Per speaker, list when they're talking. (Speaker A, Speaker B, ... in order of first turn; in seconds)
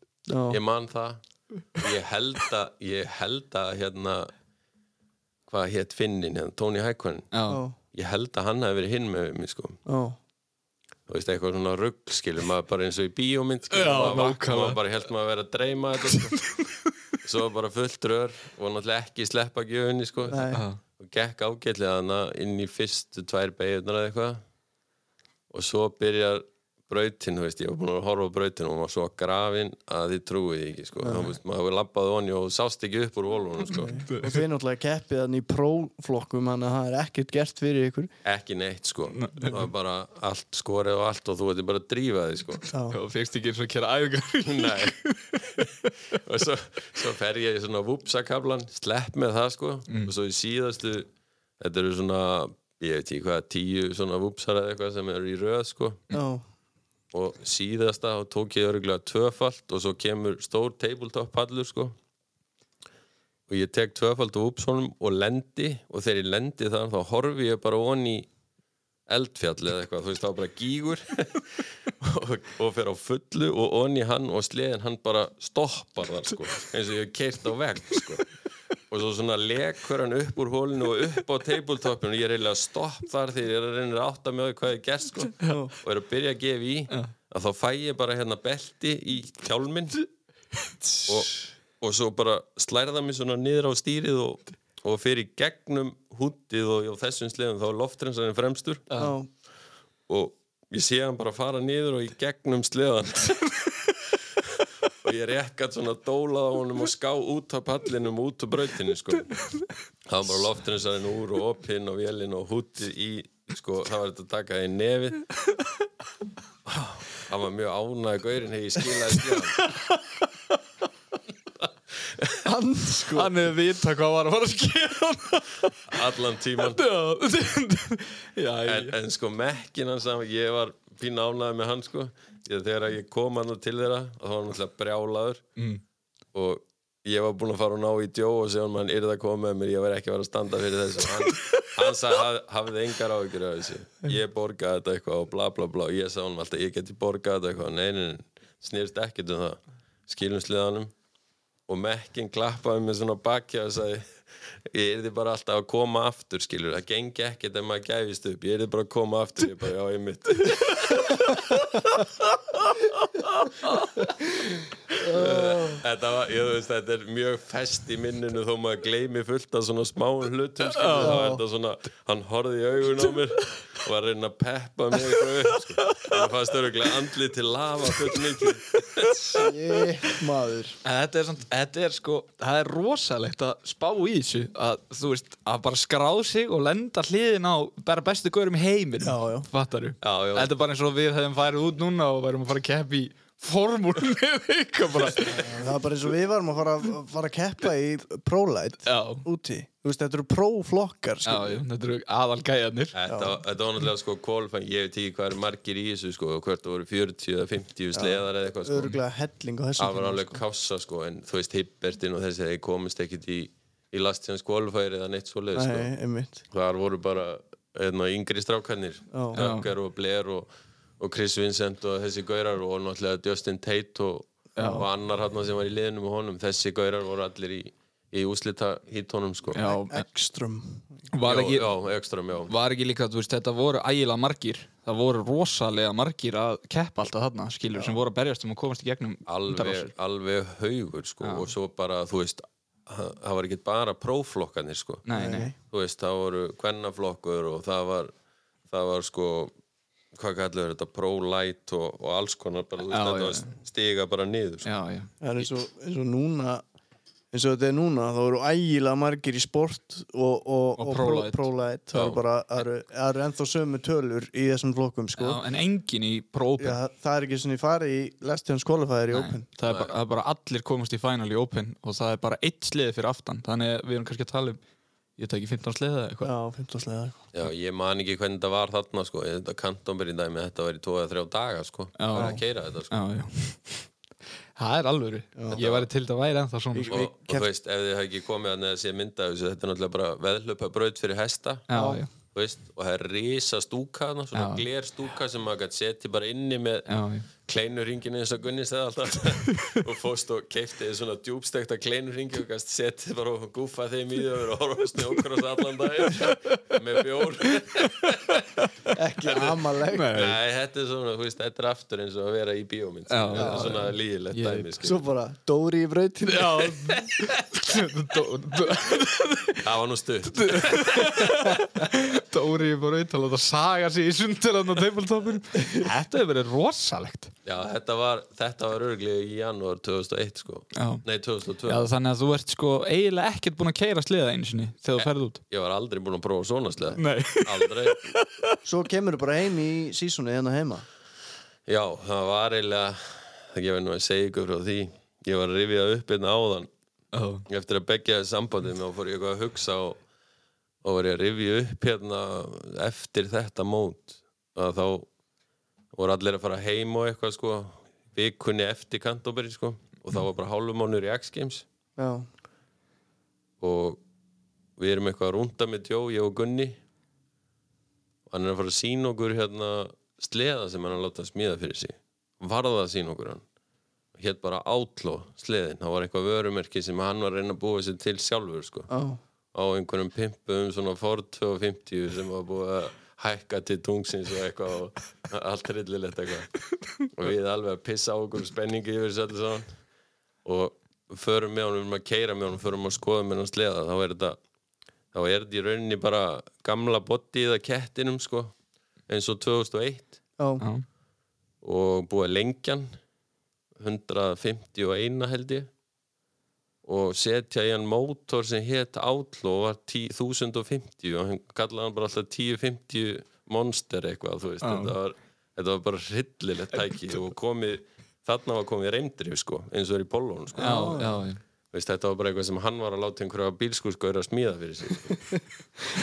Speaker A: 0.3-0.6, 7.5-7.8, 9.9-10.2, 20.3-20.6, 31.0-31.3, 33.7-38.1, 42.7-43.0, 56.1-56.4, 85.5-85.7, 99.0-99.3, 122.4-123.4, 165.0-165.8, 171.0-171.4, 179.3-180.8, 189.0-189.5, 195.2-201.6, 203.1-203.4, 207.9-210.4, 215.5-216.4, 219.1-219.4, 224.6-224.8, 229.6-231.0, 245.1-245.6, 255.2-256.6, 257.3-265.4, 266.6-269.4, 276.2-277.2, 282.2-282.4, 286.7-287.5, 291.7-292.0, 308.9-310.2, 313.4-313.8, 314.8-317.0, 338.6-340.9, 362.0-362.3, 378.9-379.2, 400.4-400.6, 420.6-421.1
Speaker B: 0.5-1.2, 1.8-4.3, 5.5-7.3, 7.9-9.8, 11.1-16.4, 17.2-20.5, 21.0-24.4, 25.5-34.0, 38.2-42.7, 44.5-51.1, 51.6-56.0, 57.1-62.0, 63.5-68.3, 69.1-78.2, 78.9-90.0, 91.1-98.9, 100.1-103.5, 104.4-109.4, 110.1-115.2, 116.7-119.6, 121.6-122.4, 125.9-126.8, 128.7-135.4, 136.3-150.9, 151.7-154.1, 154.7-161.4, 165.0-179.3, 190.0-190.5, 202.9-209.0, 209.8-215.9, 216.5-229.6, 231.2-232.5, 239.3-245.1, 245.6-248.1, 248.7-249.5, 250.1-254.7, 261.9-262.2, 269.7-269.9, 277.3-282.9, 285.5-285.9, 286.9-291.7, 292.3-308.4, 310.1-315.0, 319.6-321.2, 327.4-331.9, 335.0-338.1, 341.7-346.7, 347.5-350.0, 350.8-355.1, 355.9-361.6, 363.6-364.0, 364.8-366.8, 368.3-373.4, 374.1-378.9, 379.5-386.5, 387.1-389.7, 390.4-394.4, 395.1-398.5, 399.1-400.2, 401.6-402.9, 403.8-405.7, 406.8-421.0, 421.7-425.2
Speaker C: 7.3-7.6, 13.7-14.8, 16.1-16.8, 20.5-20.8, 34.1-34.4, 39.1-39.7, 42.9-45.9, 119.3-120.3, 123.1-126.0, 126.6-128.9, 141.2-141.7, 170.8-171.2, 175.8-176.2, 178.8-179.4, 180.8-195.6, 198.9-199.3, 201.3-202.9, 219.3-219.7, 224.6-224.8, 229.5-230.0, 231.1-231.7, 232.5-239.9, 241.2-241.5, 245.1-245.5, 252.9-253.5, 254.7-255.1, 260.8-261.5, 265.2-266.8, 269.1-274.6, 275.2-276.3, 282.0-283.9, 284.6-287.0, 291.7-292.1, 294.4-294.7, 296.9-297.3, 306.2-306.6, 307.4-308.7, 309.3-310.4, 313.1-314.8, 316.3-319.7, 320.2-327.3, 330.8-331.0, 331.6-335.4, 337.0-338.6, 347.1-347.4, 400.6-400.9, 414.6-414.9, 420.6-421.4